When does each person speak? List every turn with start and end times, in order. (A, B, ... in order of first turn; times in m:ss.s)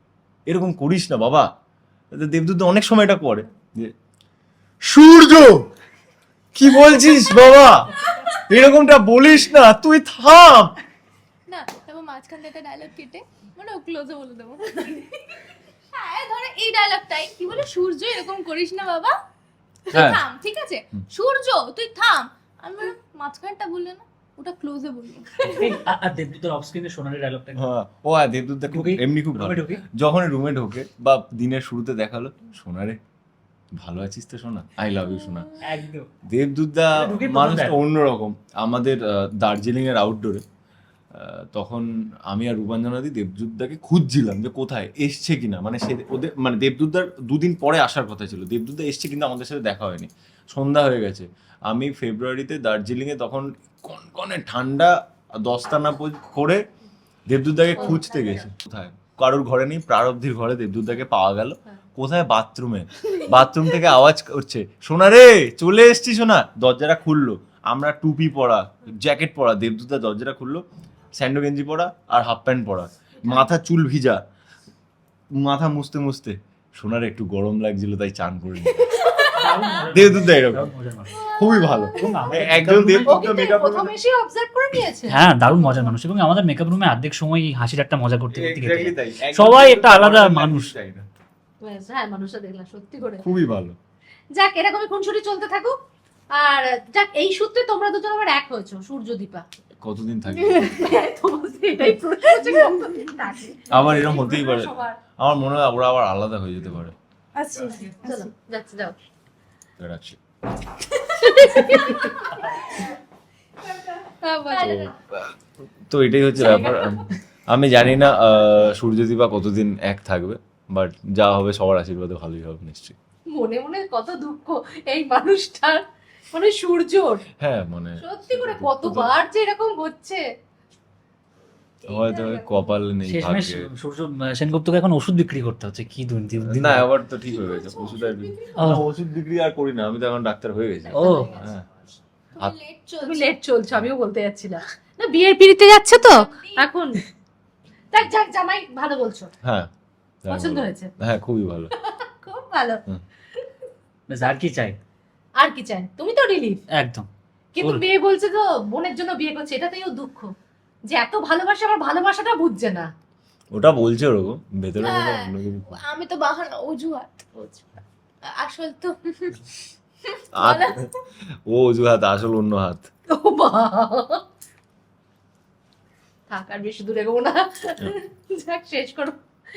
0:00.5-0:01.5 A
0:02.1-0:03.9 A
0:04.8-0:05.7 A
0:06.5-0:10.8 A
0:11.5-0:19.1 B
0:19.9-0:25.8 B
0:19.9-0:20.2 A
0:25.4-0:27.6 C
0:27.6-0:33.0 A
0:28.7-0:29.8 C
0:33.8-0:35.5 A
0:35.6-0:36.1 C
0:36.3-0:40.4 A
0:37.0-0:37.8 C
0:41.1-0:56.6 A
0:57.3-1:10.6 A
0:57.7-0:58.5 D
1:11.2-1:14.2 A
1:15.4-1:18.9 A
1:18.9-1:19.7 D
1:19.0-1:19.4 B
1:19.4-1:21.2 C
1:19.9-1:20.7 A
1:21.1-1:21.9 B
1:21.2-1:22.3 D
1:21.4-1:23.9 A
1:21.9-1:23.1 C
1:23.0-1:25.9 D
1:25.1-1:30.7 C
1:28.3-1:31.1 A
1:31.6-1:33.2 D
1:33.2-1:33.8 A
1:34.4-1:35.7 D
1:36.3-1:39.4 D
1:39.8-1:40.7 A
1:40.3-1:40.7 E
1:40.5-1:45.0 D
1:43.7-1:46.9 A
1:47.3-1:48.3 E
1:48.0-1:48.9 D
1:49.8-1:50.2 A
1:51.1-1:52.8 D
1:53.7-1:54.7 E
1:54.4-1:54.9 D
1:54.6-1:55.3 A
1:55.9-2:03.0 A
1:56.4-1:57.0 D
2:03.3-2:07.2 D
2:07.4-2:09.1 A
2:08.0-2:10.2 D
2:11.8-2:12.7 D
2:11.9-2:13.6 A
2:13.0-2:16.9 C
2:16.5-2:21.6 A
2:17.2-2:18.7 B
2:18.6-2:18.8 C
2:20.9-2:21.4 C
2:21.0-2:21.4 D
2:22.4-2:23.3 B
2:23.0-2:27.0 D
2:25.8-2:26.7 B
2:27.9-2:29.3 D
2:29.4-2:29.7 A
2:30.2-2:31.7 A
2:30.3-2:30.9 D
2:31.8-2:32.8 D
2:34.1-2:34.8 C
2:35.4-2:36.6 D
2:36.7-2:37.8 C
2:37.6-2:40.3 D
2:40.9-2:42.9 D
2:43.5-2:45.8 A
2:44.8-2:47.6 B
2:48.2-2:49.5 B
2:50.0-2:50.7 B
2:50.3-2:50.7 A
2:51.5-2:52.9 A
2:53.1-2:54.2 D
2:56.3-2:59.2 D